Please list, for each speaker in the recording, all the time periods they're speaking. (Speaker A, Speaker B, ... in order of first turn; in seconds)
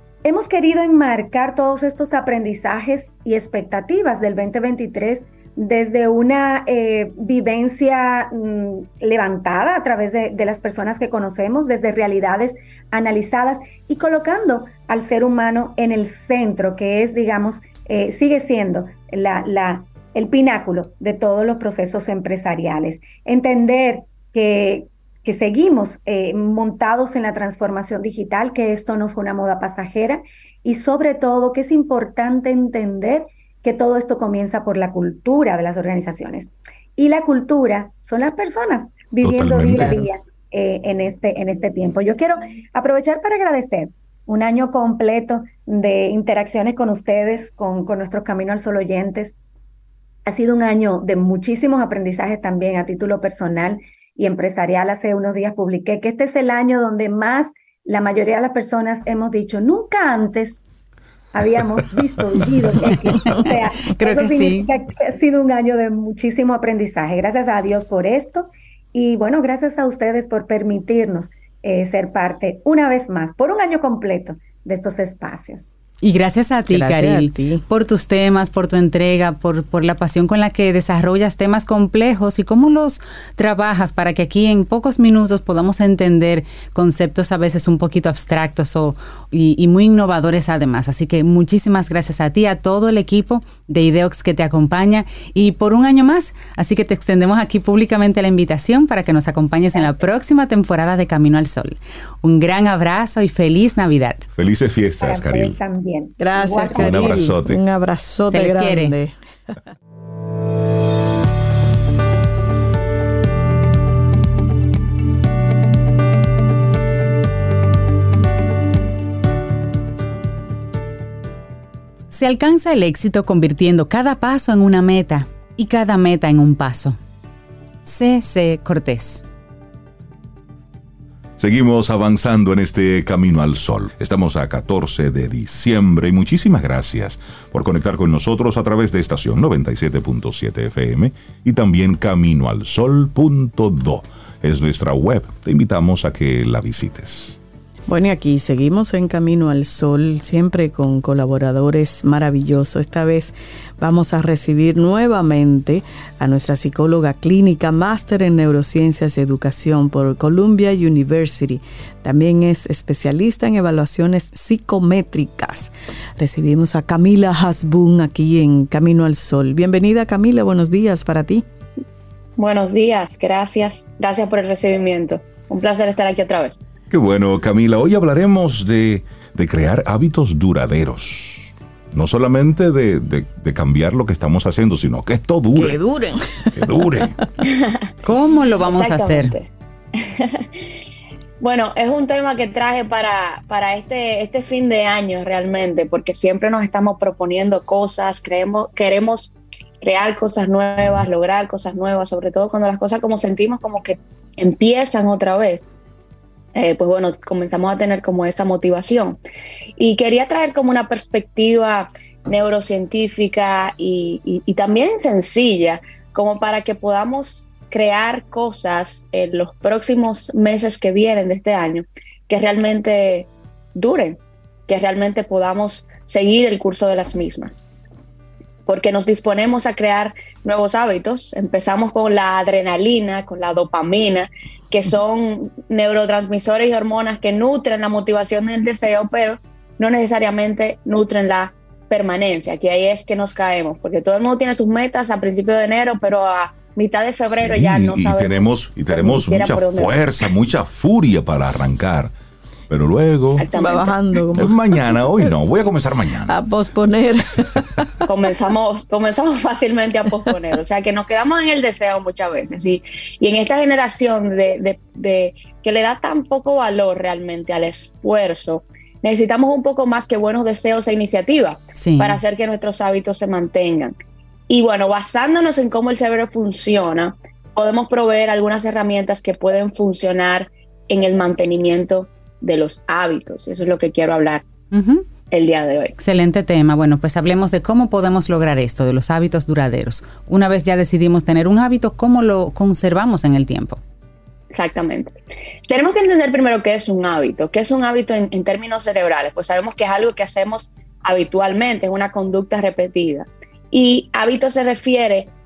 Speaker A: 0.2-49.4, 50.2-60.6, 61.3-75.7, 105.0-107.3
Speaker B: 39.2-40.1, 104.4-105.6, 106.8-107.6, 131.4-147.4, 176.9-185.8, 186.5-187.1, 247.4-252.1, 252.7-253.5, 254.3-256.4
Speaker C: 63.3-64.7, 76.0-104.3, 108.3-108.9, 122.1-127.0, 127.8-129.2, 188.0-189.4, 271.7-272.2, 284.7-285.0, 286.0-293.8
Speaker D: 76.7-77.6, 106.2-109.2, 147.9-171.4, 185.5-186.7, 253.5-255.3, 256.3-257.8
Speaker E: 172.4-176.6, 187.4-187.9, 188.6-190.5, 191.4-205.7, 206.5-209.2, 209.8-227.6, 228.7-250.1, 253.3-253.9, 258.1-273.9, 274.5-284.4, 285.3-285.9, 294.5-295.2, 295.7-305.3